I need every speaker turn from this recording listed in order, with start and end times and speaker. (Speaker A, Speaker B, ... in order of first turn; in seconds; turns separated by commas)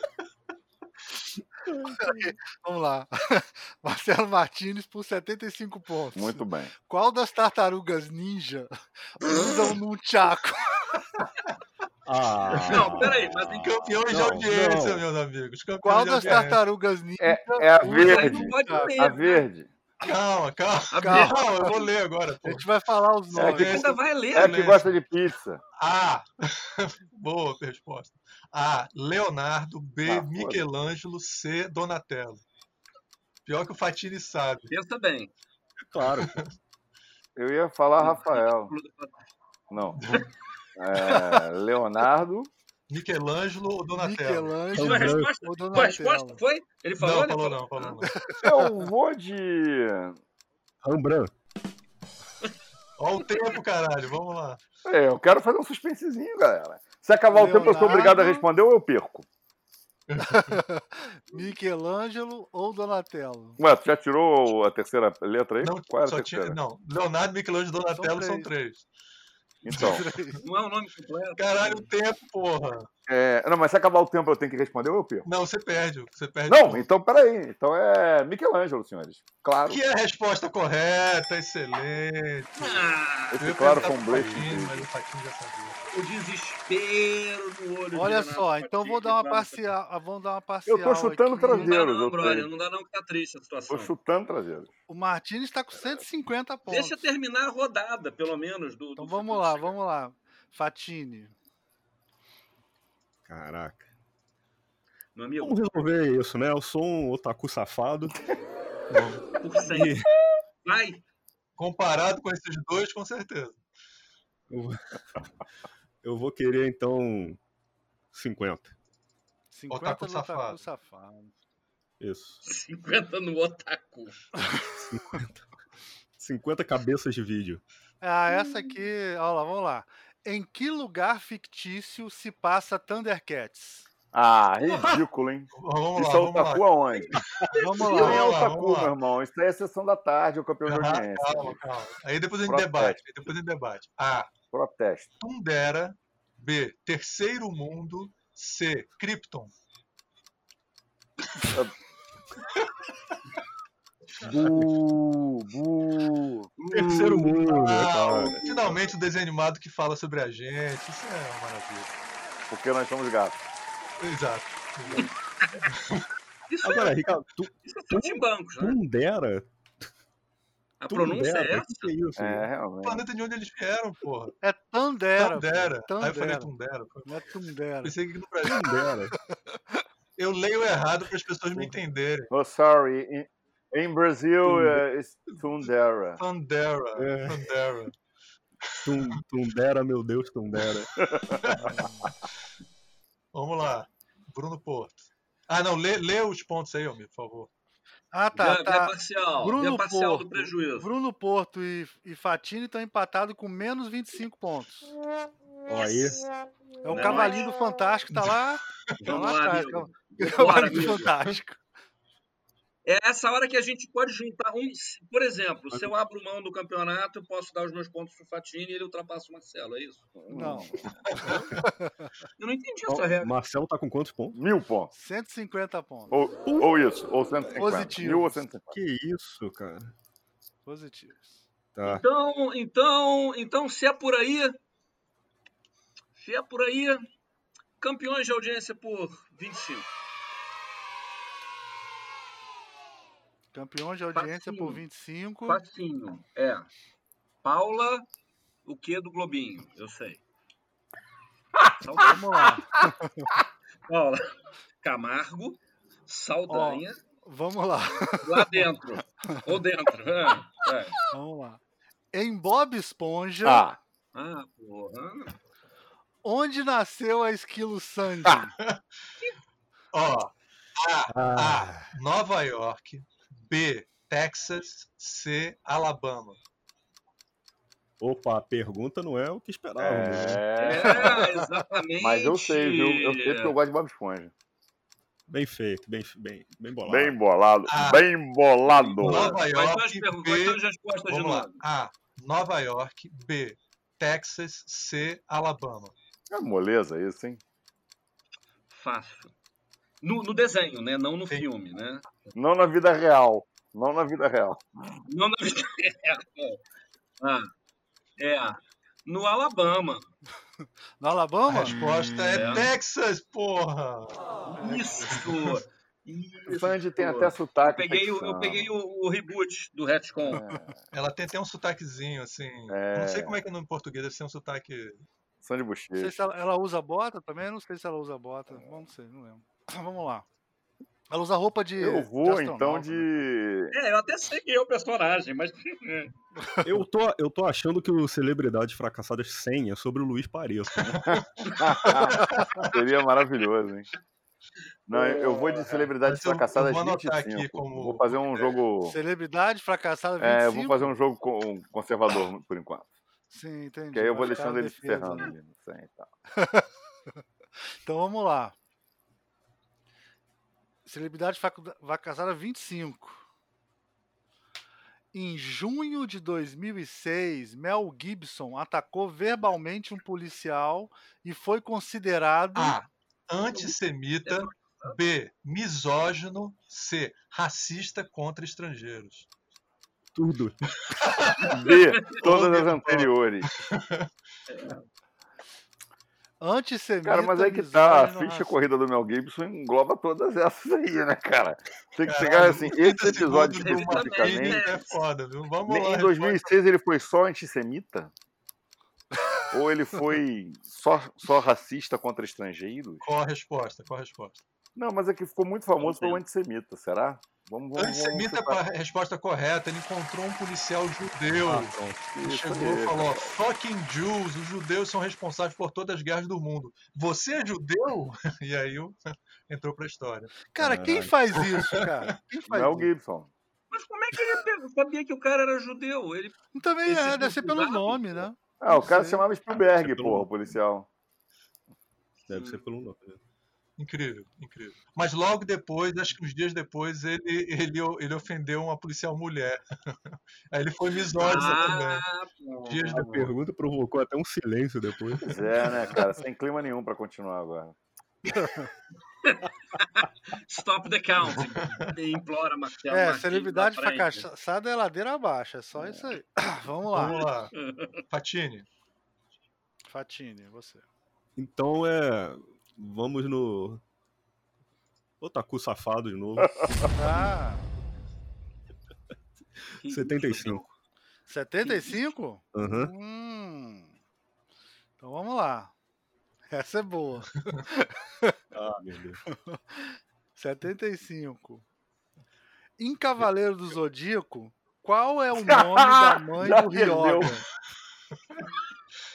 Speaker A: 1.9-10.7, Speaker B: 6.1-6.7, Speaker C: 12.1-13.2, Speaker D: 12.7-14.0, Speaker E: 13.5-16.6, Speaker C: 14.1-15.0, Speaker A: 15.8-19.0, Speaker B: 17.2-19.7, Speaker D: 17.8-19.5, Speaker E: 20.0-22.7, Speaker D: 20.9-21.9, Speaker A: 21.0-21.4, Speaker A: 22.4-23.7, Speaker B: 23.3-25.6, Speaker E: 23.4-24.9, Speaker D: 23.6-24.7, Speaker E: 25.8-32.4, Speaker B: 30.1-30.7, Speaker E: 33.5-34.7, Speaker D: 34.7-35.3, Speaker C: 35.8-36.4, Speaker E: 36.0-36.5, Speaker B: 37.4-38.7, Speaker D: 38.0-39.1, Speaker B: 39.7-40.0, Speaker E: 40.0-40.3, Speaker B: 40.8-42.5, Speaker E: 42.9-44.6, Speaker A: 44.0-46.4, Speaker C: 44.7-45.3, Speaker D: 44.7-48.0, Speaker E: 47.0-48.1, Speaker A: 48.1-48.8, Speaker B: 48.4-50.2, Speaker C: 50.8-51.3, Speaker E: 53.0-54.6, Speaker B: 54.9-59.3, Speaker A: 57.3-58.4, Speaker E: 60.1-60.6, Speaker A: 60.2-63.6, Speaker B: 63.6-66.6, Speaker E: 65.6-68.9, Speaker A: 68.0-68.5, Speaker B: 69.6-70.1, Speaker A: 69.7-70.4, Speaker D: 70.4-71.9, Speaker E: 71.4-72.9, Speaker B: 73.1-75.3, Speaker E: 75.2-76.9, Speaker B: 76.5-79.8, Speaker E: 79.7-85.8, Speaker D: 82.6-84.0, Speaker B: 83.3-84.9, Speaker D: 85.9-89.7, Speaker A: 87.9-91.7, Speaker B: 90.7-92.5, Speaker D: 91.5-93.9, Speaker B: 93.7-94.7, Speaker A: 94.9-97.0, Speaker D: 96.7-99.8, Speaker A: 99.0-101.3, Speaker C: 103.3-103.9, Speaker D: 105.2-105.8, Speaker C: 105.4-108.2, Speaker E: 108.9-109.2, Speaker D: 109.4-110.0, Speaker C: 109.6-110.1, Speaker D: 110.7-111.0, Speaker E: 111.6-113.6, Speaker C: 114.5-114.8, Speaker C: 116.0-117.4, Speaker C: 118.1-118.7, Speaker A: 119.5-121.3, Speaker E: 119.7-120.6, Speaker C: 122.0-122.4, Speaker D: 122.4-124.3, Speaker C: 124.7-125.5, Speaker C: 126.2-127.6, Speaker A: 128.0-133.9, Speaker B: 134.1-137.2, Speaker E: 135.6-136.7, Speaker A: 137.5-138.3, Speaker E: 137.8-138.9, Speaker B: 137.8-141.6, Speaker E: 140.7-144.3, Speaker B: 142.5-143.0, Speaker B: 144.5-145.1, Speaker E: 145.2-149.5, Speaker B: 154.2-156.5, Speaker E: 156.7-161.9, Speaker C: 156.7-158.8, Speaker B: 162.5-163.4, Speaker E: 164.0-165.1, Speaker D: 165.0-165.6, Speaker E: 165.7-166.1, Speaker D: 166.5-167.0, Speaker C: 166.6-169.5, Speaker D: 167.6-168.8, Speaker D: 170.8-171.9, Speaker C: 170.9-172.5, Speaker B: 172.2-173.0, Speaker E: 172.8-174.3, Speaker A: 174.4-176.5, Speaker E: 175.2-177.1, Speaker A: 177.1-177.9, Speaker E: 177.8-178.8, Speaker C: 178.4-179.2, Speaker E: 180.2-182.3, Speaker B: 182.3-186.2, Speaker C: 184.5-184.8, Speaker E: 186.2-187.9, Speaker C: 187.0-187.4, Speaker E: 188.7-189.2, Speaker C: 188.8-190.9, Speaker B: 191.0-191.4, Speaker E: 191.3-191.9, Speaker A: 191.6-192.1, Speaker E: 193.3-197.5, Speaker A: 198.1-204.9, Speaker D: 198.3-200.9, Speaker C: 205.7-206.3, Speaker A: 206.8-211.6, Speaker D: 206.9-207.5, Speaker D: 209.0-211.1, Speaker D: 212.8-220.1, Speaker B: 220.2-220.9, Speaker A: 220.3-220.7, Speaker D: 221.2-221.5, Speaker A: 221.7-222.1, Speaker D: 222.4-223.3, Speaker C: 222.9-224.4, Speaker B: 224.3-224.9, Speaker A: 224.9-226.1, Speaker B: 226.1-228.8, Speaker C: 226.5-226.8, Speaker A: 227.6-228.4, Speaker C: 228.7-229.9, Speaker A: 230.7-231.4, Speaker C: 231.8-232.0, Speaker D: 231.8-234.6, Speaker D: 236.2-237.0, Speaker D: 237.8-239.9, Speaker A: 243.5-245.6, Speaker D: 244.2-244.8, Speaker D: 245.5-246.7, Speaker D: 247.4-248.1, Speaker D: 248.7-250.2, Speaker D: 251.8-252.5, Speaker A: 252.0-253.3, Speaker D: 253.9-254.2, Speaker D: 254.8-257.0, Speaker A: 256.5-258.6, Speaker D: 258.2-261.0, Speaker A: 261.1-261.6, Speaker A: 262.1-263.6, Speaker B: 263.4-263.8, Speaker D: 264.1-265.4, Speaker A: 266.2-268.5, Speaker E: 269.9-276.4, Speaker C: 271.1-271.9, Speaker C: 278.0-280.4, Speaker B: 279.8-281.3, Speaker D: 280.6-283.5, Speaker B: 282.0-284.3, Speaker C: 285.3-287.2, Speaker B: 286.9-289.4, Speaker E: 287.7-288.0, Speaker D: 288.7-291.6, Speaker E: 289.0-295.9, Speaker B: 296.3-297.4, Speaker D: 298.7-299.3, Speaker D: 300.0-302.3, Speaker B: 302.4-304.7, Speaker D: 305.1-306.6, Speaker D: 307.2-307.5, Speaker D: 308.2-310.1, Speaker A: 311.0-311.7, Speaker E: 311.5-314.2, Speaker D: 312.3-312.7, Speaker D: 314.5-320.4, Speaker E: 315.1-315.5, Speaker B: 316.5-318.7, Speaker B: 320.3-320.8, Speaker E: 320.9-325.0, Speaker B: 322.7-323.4, Speaker B: 325.4-326.2, Speaker A: 326.0-330.3, Speaker A: 331.1-333.1, Speaker B: 331.8-333.8, Speaker D: 333.7-336.1, Speaker A: 336.4-336.7, Speaker C: 336.6-341.0, Speaker B: 340.9-343.9, Speaker E: 341.0-342.7, Speaker B: 344.9-349.0, Speaker E: 346.0-348.6, Speaker A: 348.9-350.9, Speaker B: 350.2-352.9, Speaker A: 353.3-355.3, Speaker B: 353.9-356.1, Speaker A: 356.4-356.7, Speaker A: 357.9-358.6, Speaker A: 360.9-363.2, Speaker A: 365.1-372.8, Speaker E: 372.6-379.3, Speaker D: 374.3-375.0, Speaker C: 380.1-380.6, Speaker E: 380.9-384.1, Speaker B: 381.5-383.5, Speaker D: 384.5-384.8, Speaker A: 386.4-388.5, Speaker B: 387.1-394.6, Speaker E: 392.1-396.5, Speaker D: 393.6-395.0, Speaker B: 395.7-398.1, Speaker B: 399.5-403.1, Speaker E: 403.0-404.4, Speaker B: 404.8-408.6, Speaker D: 405.8-406.2, Speaker E: 407.8-420.4, Speaker C: 411.4-412.1, Speaker B: 412.1-413.4, Speaker A: 420.5-422.9, Speaker C: 420.6-421.1, Speaker E: 421.4-421.9, Speaker B: 422.4-423.3, Speaker D: 423.7-428.3, Speaker A: 426.5-429.2, Speaker B: 428.6-430.9, Speaker C: 429.7-430.3, Speaker C: 432.3-433.2, Speaker D: 432.3-432.6, Speaker E: 433.8-442.1, Speaker D: 441.2-443.3, Speaker E: 442.7-443.1, Speaker C: 442.9-445.4, Speaker B: 445.2-447.8, Speaker A: 448.4-448.7, Speaker D: 449.2-454.3, Speaker E: 451.2-451.9, Speaker A: 452.9-457.2, Speaker B: 455.8-456.1, Speaker E: 456.9-457.5, Speaker D: 457.0-458.0, Speaker E: 458.1-458.7, Speaker A: 459.9-460.8, Speaker C: 461.4-463.8, Speaker C: 465.2-467.3, Speaker A: 466.9-467.7, Speaker C: 469.7-470.7, Speaker D: 469.8-470.6, Speaker A: 471.3-473.9, Speaker C: 472.5-472.9, Speaker A: 475.0-475.7, Speaker A: 476.5-478.3, Speaker C: 478.5-479.2, Speaker A: 479.3-481.6, Speaker A: 482.8-487.4, Speaker B: 485.4-487.4